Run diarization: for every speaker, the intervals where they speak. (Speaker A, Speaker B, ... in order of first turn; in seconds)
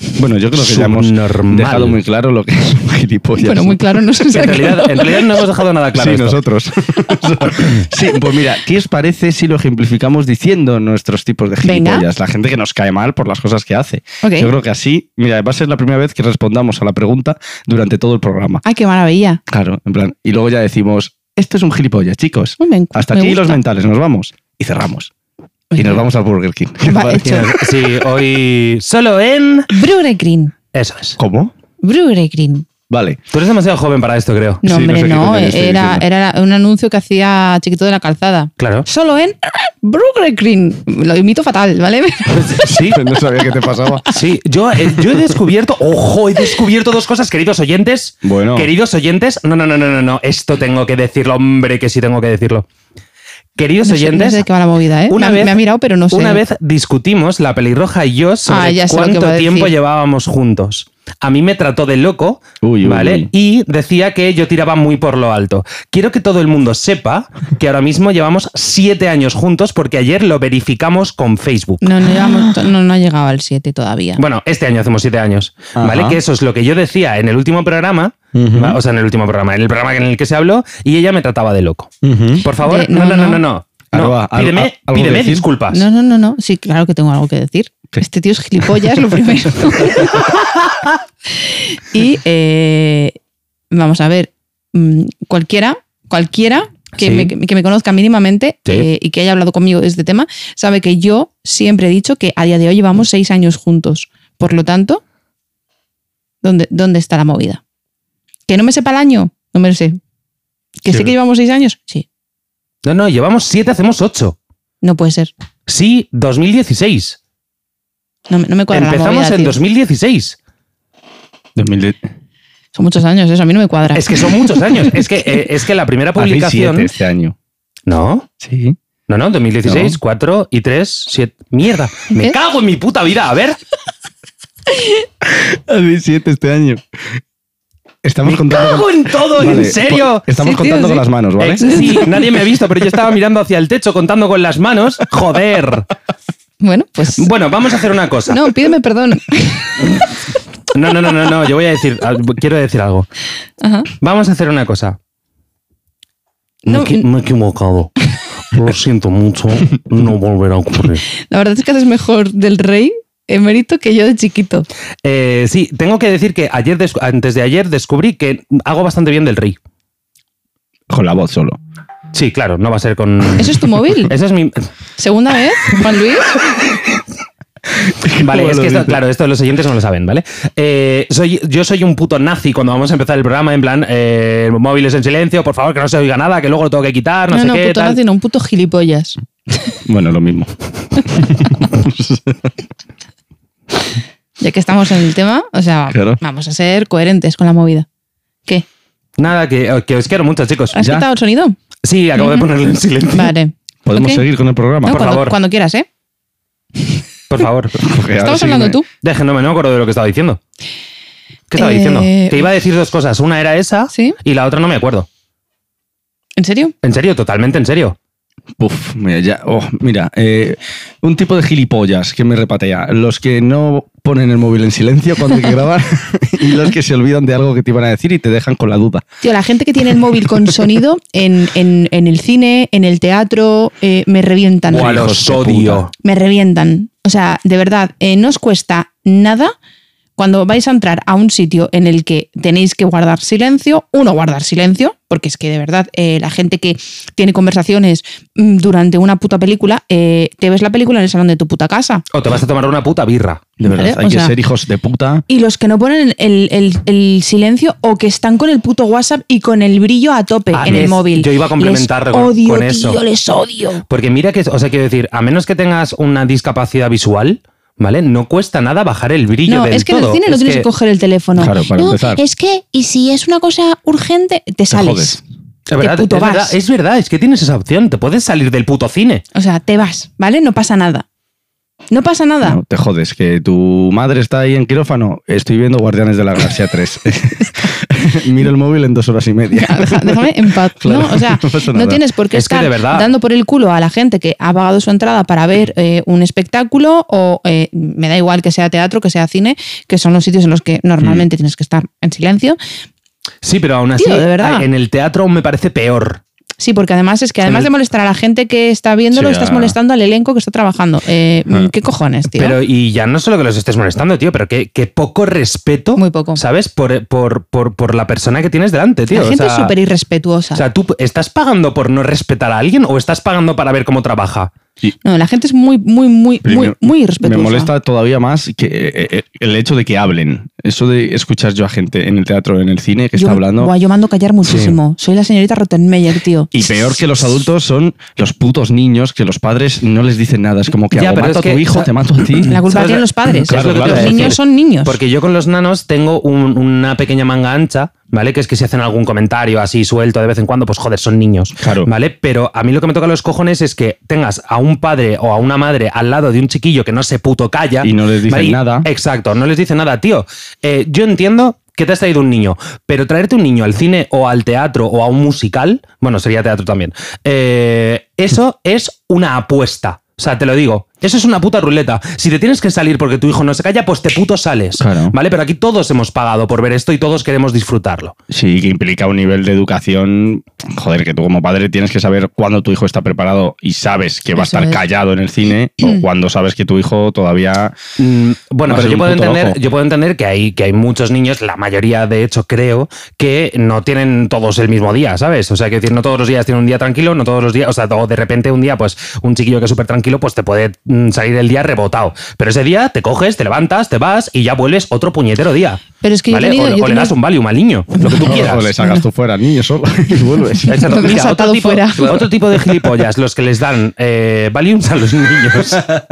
Speaker A: 0.2-3.8, 5.9-18.6, 19.5-25.1, 25.7-27.7, 31.2-31.5, 32.9-33.2, 34.6-36.0, 42.6-44.1, 48.2-48.7, 62.6-63.3, 75.8-76.2, 78.3-78.8, 82.0-82.4, 83.9-85.5, 121.5-122.0, 126.2-127.3, 128.4-128.8, 129.6-130.0, 135.2-136.8, 138.0-141.8, 170.9-171.6, 177.8-179.0, 189.8-192.5, 195.9-196.2, 200.8-201.1, 203.8-205.0, 207.8-208.8, 218.6-229.0, 234.7-235.8, 253.6-255.2, 271.4-272.2, 274.7-275.2, 282.4-292.0, 309.1-309.8, 326.4-333.7, 334.5-334.7, 336.5-342.6, 343.4-344.4, 351.6-351.9, 357.8-358.9, 374.8-375.1, 378.3-387.8, 388.6-389.6, 408.1-411.0, 412.0-412.8
Speaker B: 0.5-2.0, 4.3-6.4, 27.2-29.7, 30.7-31.2, 33.3-34.6, 38.6-38.9, 42.3-43.0, 44.1-52.6, 53.5-54.5, 55.1-55.6, 56.1-71.9, 74.2-81.9, 82.4-85.9, 97.0-97.3, 112.8-114.3, 115.7-117.2, 118.7-120.4, 123.9-126.9, 127.9-128.3, 129.1-133.6, 138.2-140.2, 141.4-145.9, 147.2-148.6, 150.7-153.1, 154.0-155.0, 156.6-157.9, 158.5-161.0, 165.0-169.6, 172.1-174.6, 178.2-188.0, 199.2-200.9, 201.8-203.3, 204.9-205.3, 207.3-207.8, 209.0-210.4, 211.5-215.1, 216.8-217.9, 234.7-235.9, 252.1-253.4, 260.5-263.0, 263.9-270.6, 275.7-279.2, 292.3-293.1, 303.4-306.2, 307.4-307.7, 312.3-319.7, 320.5-324.5, 340.9-378.1, 388.0-408.7, 410.7-415.9
Speaker C: 3.4-5.4, 11.6-12.1, 14.2-14.5, 18.6-19.4, 22.6-23.6, 25.7-26.0, 26.8-27.5, 29.7-30.5, 31.8-32.6, 34.6-42.7, 53.8-56.4, 58.5-59.7, 71.8-74.2, 82.6-83.4, 85.7-90.4, 91.4-93.1, 93.7-105.0, 106.4-107.6, 108.5-110.0, 110.8-112.0, 114.8-115.3, 118.3-119.6, 122.7-125.0, 132.1-132.3, 140.4-141.1, 141.6-142.2, 146.6-147.3, 148.3-150.1, 153.6-153.9, 156.7-157.1, 161.3-164.7, 173.4-174.1, 175.0-176.4, 187.3-189.8, 194.4-197.9, 200.7-201.6, 202.2-202.5, 203.1-204.2, 204.8-205.9, 208.2-208.9, 211.6-212.4, 213.9-214.2, 216.4-216.7, 229.2-235.0, 236.0-239.5, 240.2-252.0, 253.7-254.3, 255.3-263.8, 269.5-275.2, 275.8-276.6, 279.3-281.1, 281.9-282.6, 289.5-302.6, 304.0-304.6, 306.6-312.6, 315.9-316.4, 319.1-320.6, 325.0-327.7, 333.1-336.5, 342.5-344.9, 384.4-384.8, 406.0-407.1, 407.9-409.0, 410.5-412.3